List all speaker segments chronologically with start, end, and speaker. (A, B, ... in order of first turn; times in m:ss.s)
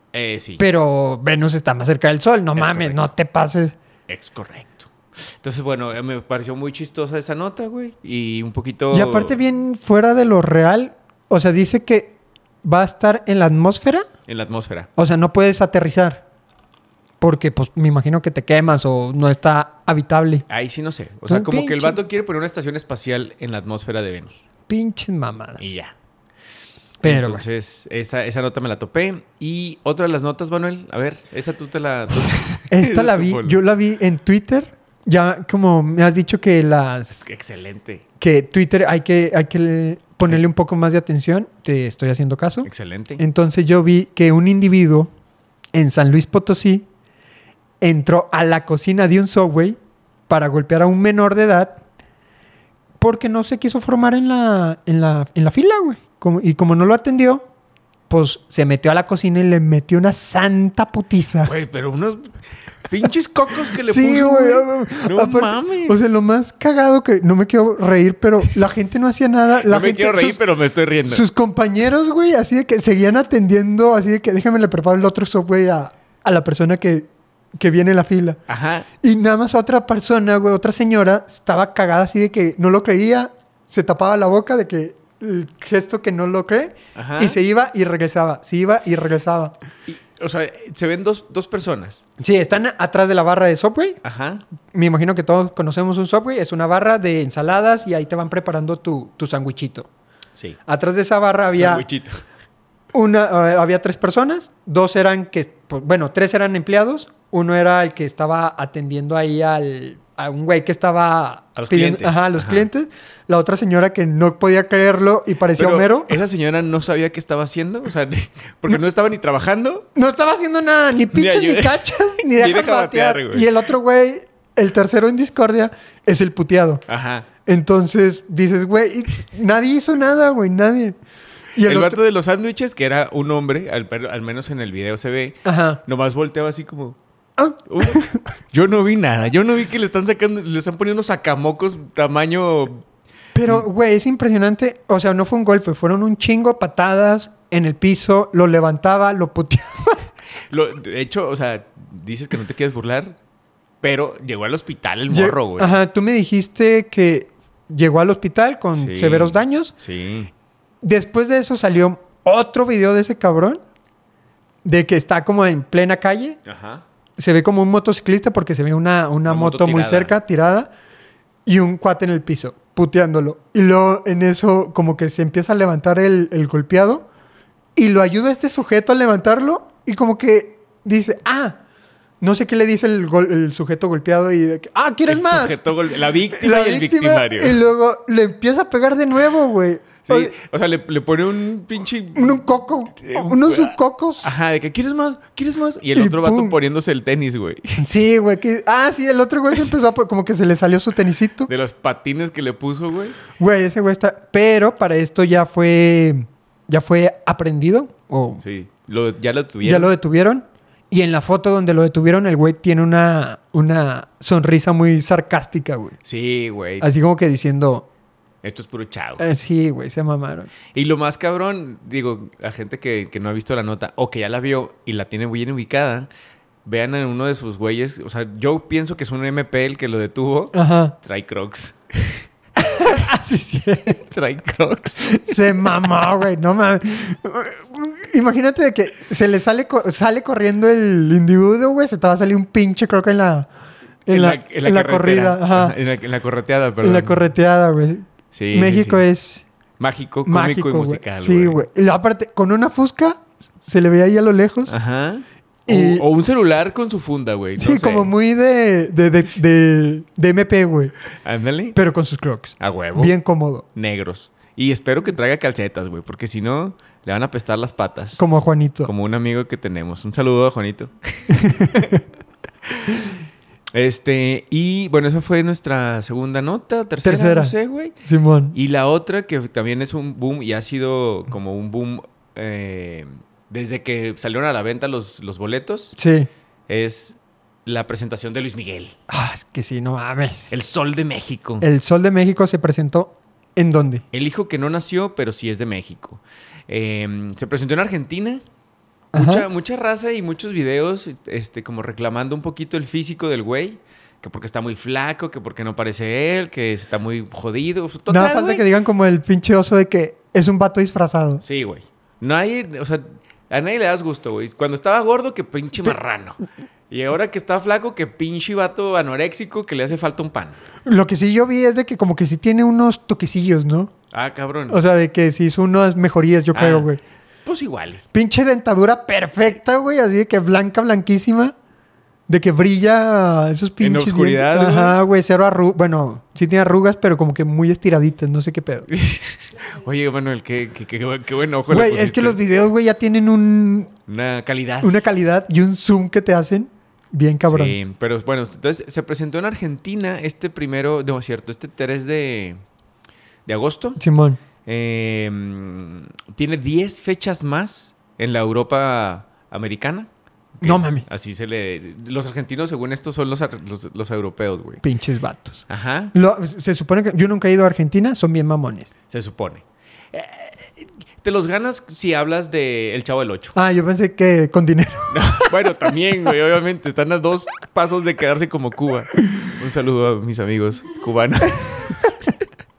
0:00.1-0:00.6 A
0:00.6-0:03.8 B
0:02.6-0:03.0 A
0:04.1-0:09.4 A
0:08.9-0:14.1 B
0:14.3-0:14.9 A
0:15.0-0:16.2 B
0:17.2-0:20.5 B
0:20.5-0:24.4 A
0:21.3-0:22.0 B
0:24.7-0:25.6 B
0:25.6-0:25.9 A
0:27.0-0:27.4 B
0:27.0-0:33.6 A
0:32.7-0:37.2 B
0:37.2-0:38.0 A
0:38.2-0:45.1 B
0:42.6-0:43.2 A
0:45.7-0:46.9 B
0:47.8-0:49.8 B
0:50.3-0:51.8 B
0:53.0-0:57.5 B
0:58.1-1:01.5 B
1:01.4-1:06.0 A
1:03.8-1:10.4 B
1:09.6-1:11.2 A
1:11.1-1:18.4 B
1:18.5-1:18.9 A
1:19.0-1:29.6 B
1:27.0-1:27.4 A
1:29.9-1:32.0 A
1:32.2-1:34.0 B
1:34.0-1:34.4 A
1:34.7-1:39.9 B
1:40.7-1:41.9 B
1:41.5-1:42.2 A
1:42.9-1:56.2 B
1:51.6-1:52.7 A
1:55.6-1:59.9 A
2:00.0-2:06.8 B
2:01.1-2:03.5 A
2:06.9-2:07.3 A
2:07.4-2:11.0 B
2:11.6-2:12.0 B
2:11.6-2:17.0 A
2:15.4-2:15.8 B
2:17.4-2:18.2 B
2:17.6-2:22.8 A
2:23.4-2:30.1 B
2:30.5-2:33.2 A
2:33.8-2:35.8 A
2:35.1-2:39.7 B
2:38.8-2:40.3 A
2:40.8-2:43.6 B
2:44.6-2:46.4 B
2:46.4-2:46.8 A
2:47.2-2:50.7 B
2:49.2-2:50.2 A
2:51.5-2:57.1 B
2:57.8-3:01.6 B
3:02.2-3:10.3 B
3:05.1-3:07.6 A
3:10.0-3:17.8 A
3:12.2-3:14.3 B
3:16.0-3:16.6 B
3:17.8-3:21.5 B
3:21.5-3:23.2 A
3:23.4-3:28.4 B
3:28.4-3:29.9 A
3:29.6-3:36.0 B
3:36.0-3:36.9 A
3:36.8-3:37.9 B
3:38.4-3:39.2 A
3:39.2-3:40.5 B
3:40.7-3:46.1 A
3:46.6-3:52.3 A
3:50.5-3:51.0 B
3:52.6-3:54.0 B
3:54.0-3:55.4 A
3:55.1-4:03.5 B
4:04.1-4:05.8 B
4:04.1-4:07.3 A
4:06.8-4:09.4 B
4:08.3-4:09.0 A
4:09.8-4:11.6 A
4:10.3-4:14.8 B
4:14.7-4:18.1 A
4:15.7-4:16.0 B
4:17.6-4:20.9 B
4:21.2-4:21.8 A
4:21.8-4:23.6 B
4:22.6-4:23.1 A
4:23.8-4:28.2 A
4:28.2-4:28.9 B
4:28.8-4:32.0 A
4:31.3-4:32.0 B
4:33.7-4:38.0 A
4:37.0-4:38.6 B
4:38.5-4:46.0 A
4:46.0-4:46.3 B
4:46.7-4:49.0 A
4:49.1-4:50.5 B
4:50.5-4:51.7 A
4:51.6-4:54.0 B
4:54.1-4:58.4 A
4:59.1-4:59.5 B
4:59.1-5:08.6 A
5:08.1-5:11.4 B
5:11.4-5:20.6 A
5:20.8-5:23.9 B
5:24.1-5:24.8 A
5:24.7-5:27.0 B
5:26.5-5:26.9 A
5:27.4-5:28.0 A
5:28.1-5:31.5 B
5:32.3-5:38.9 B
5:33.8-5:35.0 A
5:38.9-5:42.4 A
5:41.7-5:43.9 B
5:44.1-5:45.0 A
5:44.8-5:47.8 B
5:47.5-5:52.6 A
5:53.5-5:54.0 A
5:54.0-5:54.4 B
5:54.6-6:00.1 A
6:00.6-6:04.8 A
6:00.6-6:01.0 B
6:04.8-6:08.9 B
6:05.7-6:06.1 A
6:09.1-6:13.6 A
6:13.6-6:15.5 B
6:15.1-6:22.4 A